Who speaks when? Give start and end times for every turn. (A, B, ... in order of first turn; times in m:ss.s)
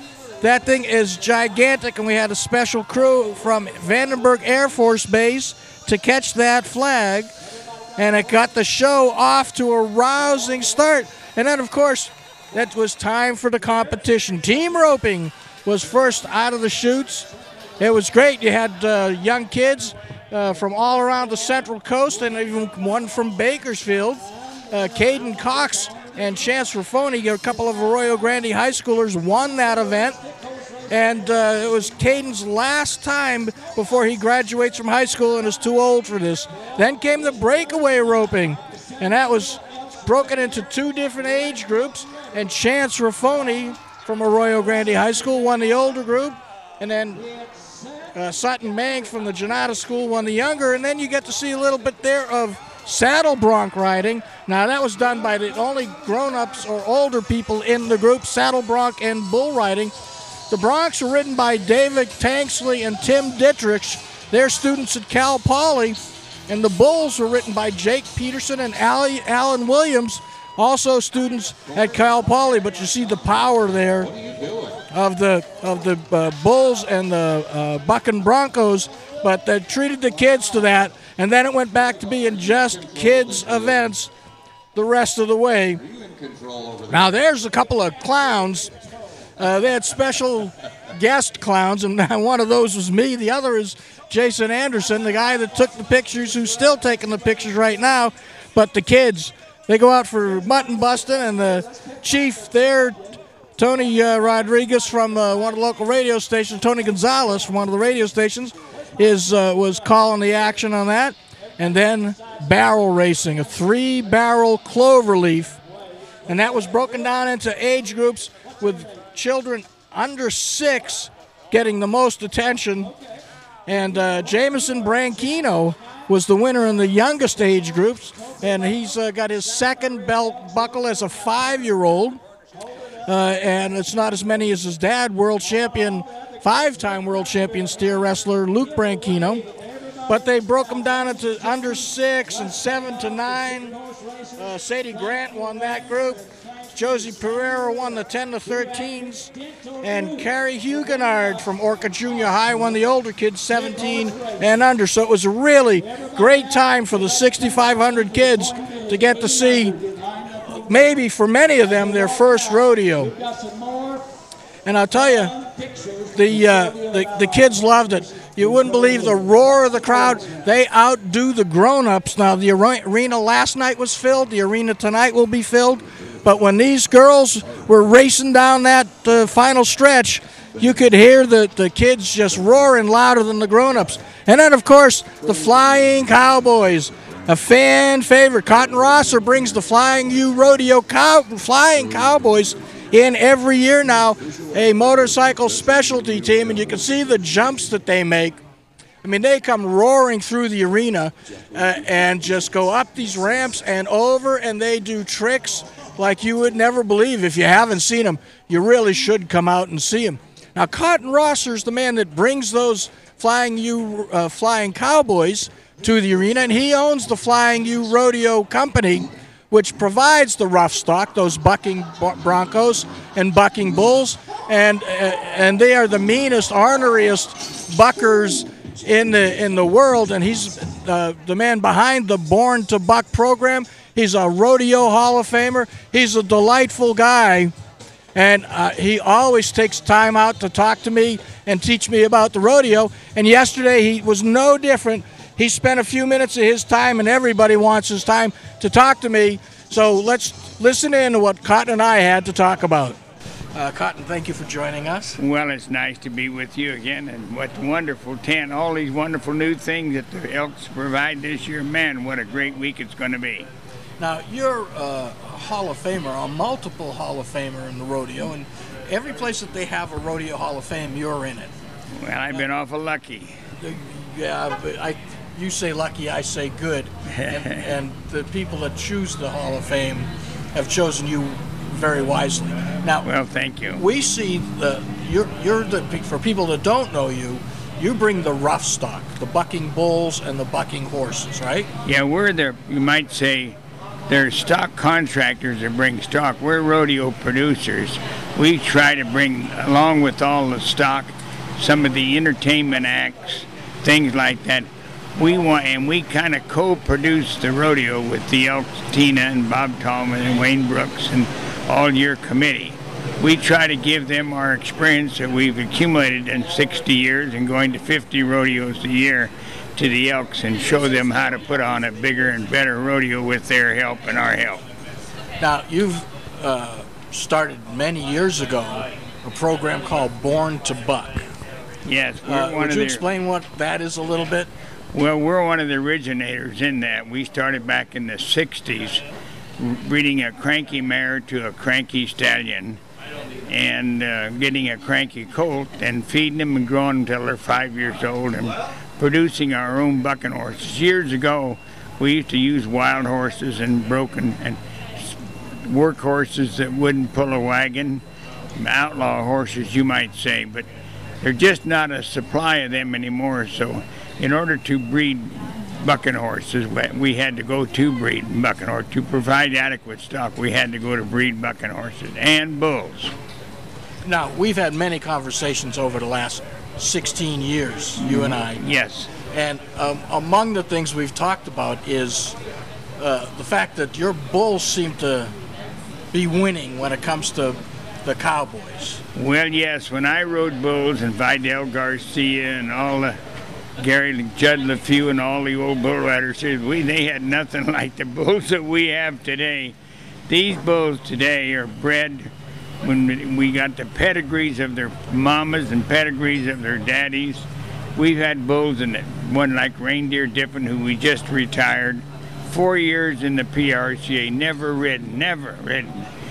0:00.4-0:07.3 A
0:08.0-0:30.2 A
0:30.9-0:47.2 A
0:48.2-0:59.9 A
1:00.5-1:14.1 A
1:14.9-1:24.1 A
1:24.7-1:25.8 A
1:26.9-1:28.7 A
1:29.4-1:55.6 A
1:56.3-2:02.9 A
2:03.7-2:12.2 A
2:13.1-2:19.5 A
2:20.1-2:23.8 A
2:24.4-2:43.1 A
2:44.6-2:45.4 A
2:46.1-3:18.4 A
3:19.0-3:57.5 A
3:58.2-4:13.0 A
4:13.6-4:15.2 A
4:15.2-4:23.5 B
4:24.0-4:31.5 A
4:32.0-4:33.4 B
4:33.6-4:43.1 A
4:37.1-4:37.8 B
4:43.0-4:43.8 B
4:43.8-4:51.7 A
4:51.8-4:53.6 B
4:54.1-5:24.6 B
5:25.4-5:31.3 A
5:31.9-5:33.0 B
5:32.2-5:34.5 A
5:34.9-5:39.0 B
5:39.6-5:42.8 B
5:43.5-5:58.0 B
5:58.6-6:00.7 B
6:01.2-6:13.1 B
6:14.0-6:18.6 A
6:18.0-6:19.1 B
6:19.3-6:22.4 A
6:23.0-6:25.3 A
6:26.1-6:29.0 A
6:29.2-6:33.2 B
6:33.8-6:39.8 B
6:40.3-6:56.1 B